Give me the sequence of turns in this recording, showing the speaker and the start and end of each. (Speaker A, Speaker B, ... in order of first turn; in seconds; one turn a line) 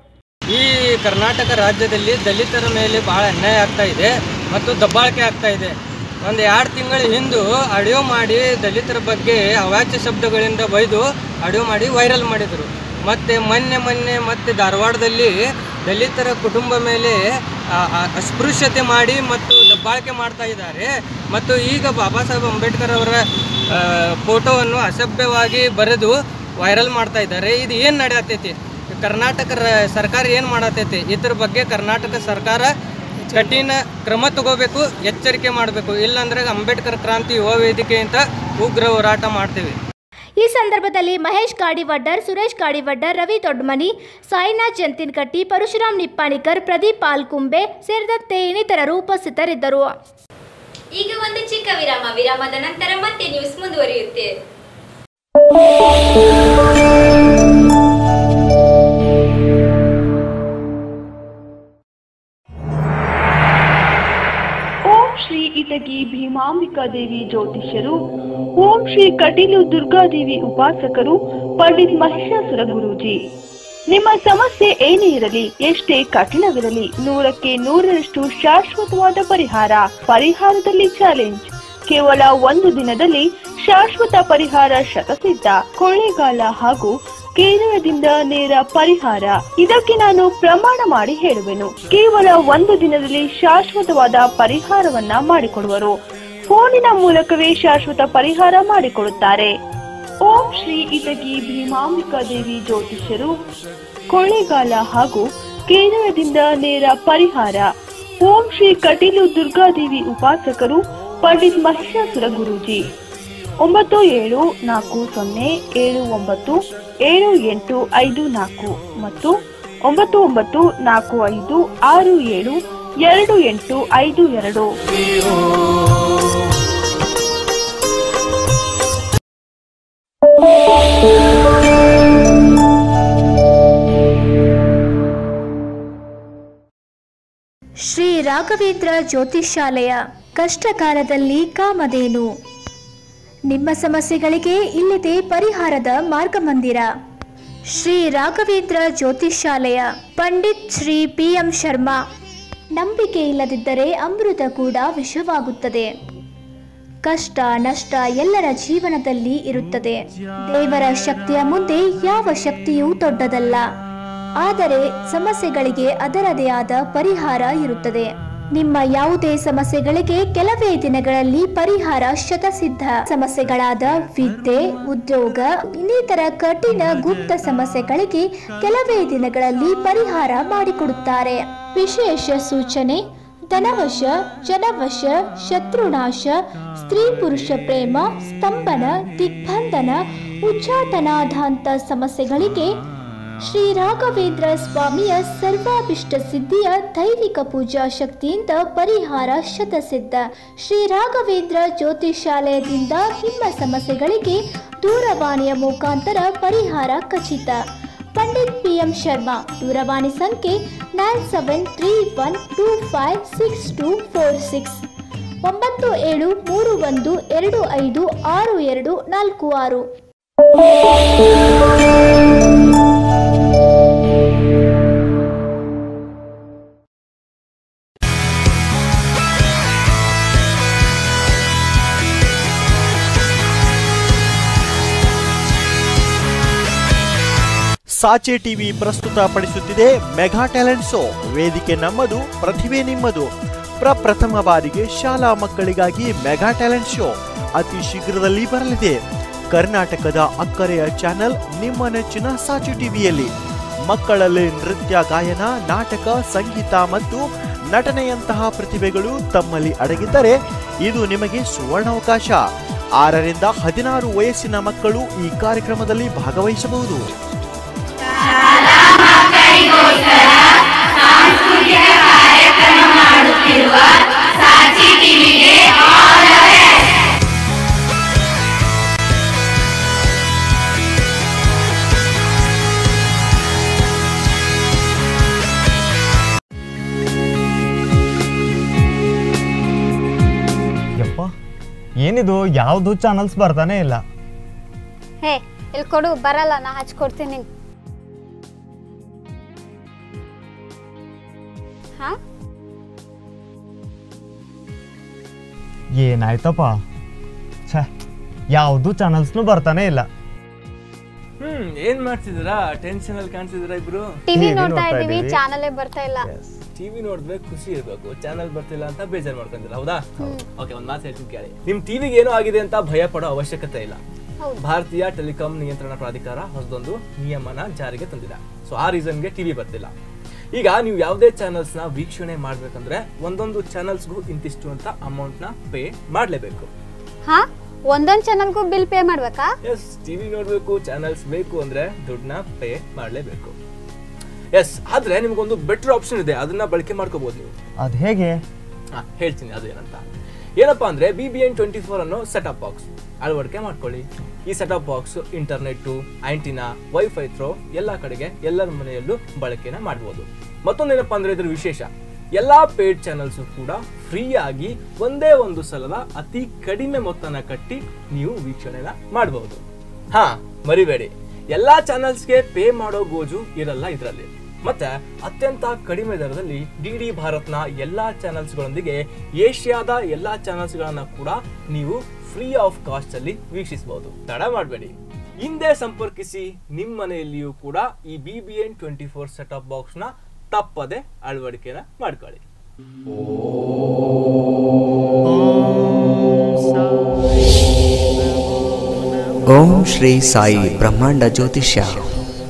Speaker A: 0.5-32.7
Speaker A: 33.3-39.8
Speaker B: 40.4-49.9
Speaker C: 51.0-54.3
Speaker D: 64.9-68.0
Speaker D: 68.6-73.2
Speaker D: 73.9-99.5
Speaker D: 100.2-103.3
Speaker D: 104.1-107.7
Speaker D: 108.2-112.8
Speaker D: 113.6-124.7
Speaker B: 137.9-142.3
Speaker B: 143.5-146.9
Speaker B: 147.7-152.0
Speaker B: 152.8-155.9
Speaker B: 157.1-163.6
Speaker B: 164.4-192.7
Speaker B: 193.4-207.6
Speaker B: 208.2-214.8
Speaker B: 215.4-219.9
Speaker E: 238.0-243.3
Speaker E: 243.8-249.0
Speaker E: 249.5-253.3
Speaker E: 253.9-262.4
Speaker E: 263.0-267.0
Speaker F: 291.0-291.3
Speaker F: 292.0-294.0
Speaker G: 295.2-297.5
Speaker F: 306.0-306.8
Speaker F: 308.5-310.1
Speaker H: 311.4-314.2
Speaker G: 314.3-316.3
Speaker F: 314.3-315.4
Speaker F: 316.2-316.6
Speaker H: 316.8-324.0
Speaker H: 324.6-329.9
Speaker H: 330.5-336.7
Speaker G: 337.3-339.5
Speaker H: 339.6-343.5
Speaker H: 344.6-347.5
Speaker F: 347.8-348.4
Speaker H: 348.9-350.0
Speaker H: 350.6-392.4
Speaker I: 399.5-402.1